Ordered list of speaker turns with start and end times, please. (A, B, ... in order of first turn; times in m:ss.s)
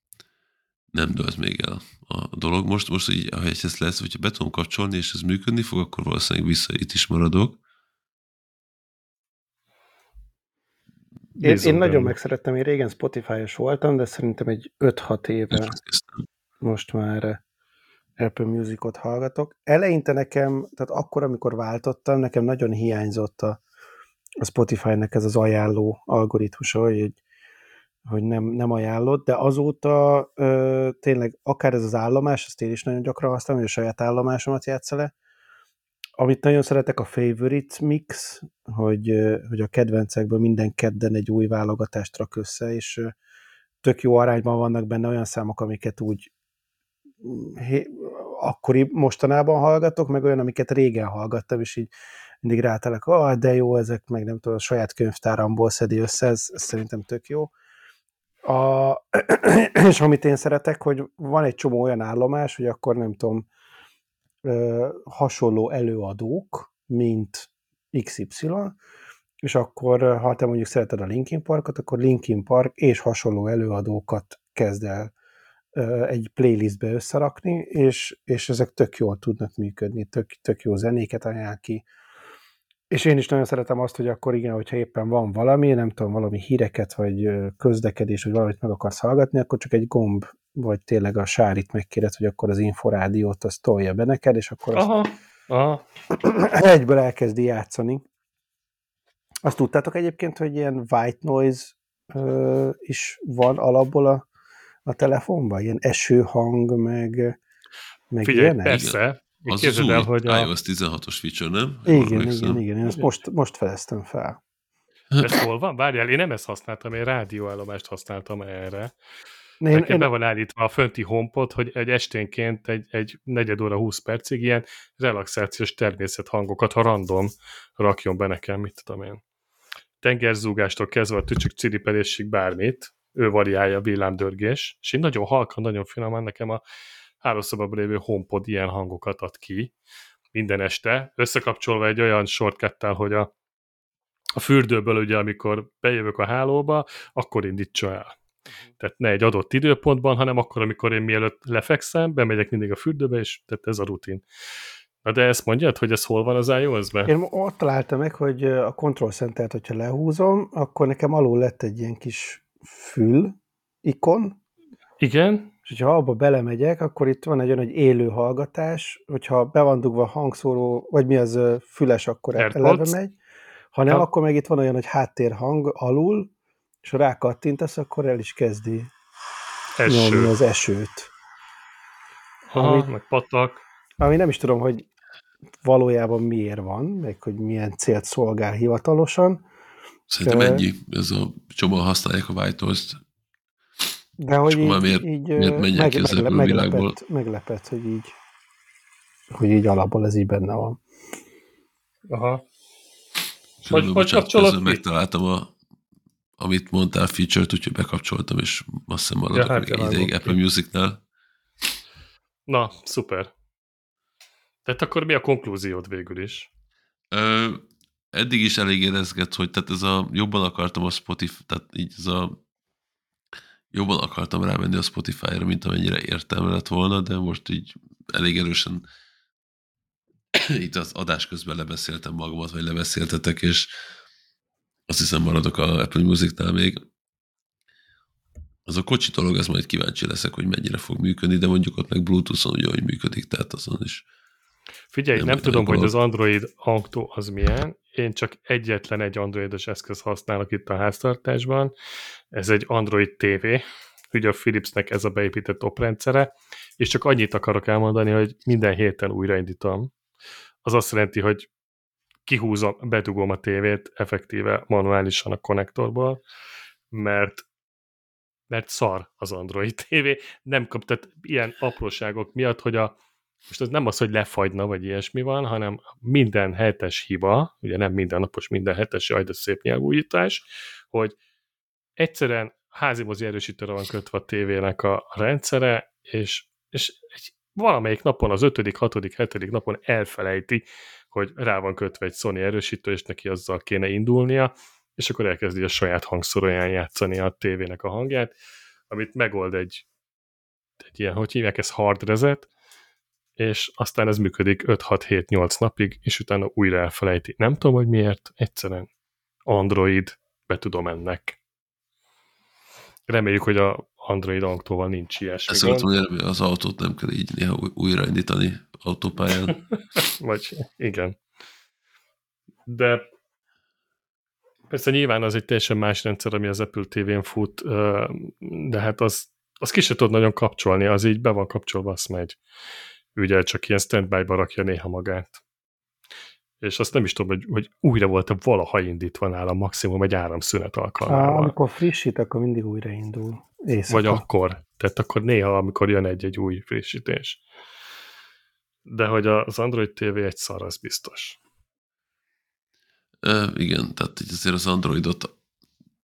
0:00.9-0:07.6 A
0:11.4-0:15.8 B
0:11.4-0:12.2 C
0:15.5-0:16.2 A
0:16.6-0:17.4 B
0:18.2-0:23.6 B
0:24.4-0:27.2 B
0:28.0-0:35.1 B
0:36.2-0:43.1 B
0:43.8-0:46.3 B
0:47.2-0:51.9 B
0:52.4-0:57.5 B
0:58.4-1:03.4 B
1:04.4-1:08.8 B
1:09.4-1:15.1 B
1:15.7-1:21.8 B
1:22.9-1:34.9 B
1:34.7-1:35.8 C
1:36.1-1:38.0 B
1:39.4-1:44.2 B
1:44.8-1:47.4 B
1:48.1-1:48.8 B
1:48.2-1:50.5 C
1:48.6-1:52.6 A
1:51.8-1:54.4 B
1:55.2-1:58.9 C
1:59.6-2:00.1 B
1:59.7-2:09.2 C
2:10.0-2:16.6 C
2:17.2-2:19.7 C
2:20.3-2:23.3 C
2:24.4-2:28.1 C
2:28.8-2:34.2 C
2:35.0-2:37.1 C
2:37.1-2:44.4 B
2:45.0-2:45.5 C
2:45.7-2:53.1 B
2:52.4-2:53.0 C
2:53.7-2:56.3 B
2:56.8-2:58.9 B
2:59.8-3:00.3 C
2:59.8-3:01.1 B
3:02.5-3:03.6 C
3:02.6-3:02.9 B
3:04.0-3:04.8 B
3:05.6-3:09.4 B
3:10.1-3:13.0 A
3:10.2-3:10.6 B
3:14.2-3:18.1 B
3:14.4-3:17.0 A
3:19.3-3:20.8 B
3:22.1-3:22.4 C
3:23.6-3:25.5 A
3:23.7-3:24.8 C
3:26.4-3:31.0 A
3:29.3-3:30.4 C
3:32.5-3:33.3 C
3:34.6-3:36.5 C
3:37.1-3:37.6 A
3:38.1-3:42.4 A
3:43.7-3:48.8 A
3:50.3-3:53.7 A
3:54.9-3:56.8 A
3:58.7-4:04.0 A
4:04.9-4:11.7 C
4:05.1-4:05.9 A
4:12.3-4:19.9 C
4:20.6-4:21.5 C
4:22.3-4:26.2 C
4:26.9-4:27.4 C
4:28.5-4:32.9 C
4:33.5-4:41.2 C
4:42.0-4:58.3 C
4:58.9-4:59.8 C
5:00.8-5:02.5 C
5:03.4-5:08.9 C
5:09.4-5:11.4 C
5:13.1-5:15.9 C
5:15.5-5:19.6 A
5:20.0-5:21.2 C
5:22.7-5:23.0 C
5:24.7-5:32.4 C
5:33.1-5:35.4 C
5:36.6-5:41.5 C
5:41.0-5:44.2 B
5:43.9-5:47.4 C
5:48.8-5:51.4 C
5:53.2-5:55.3 A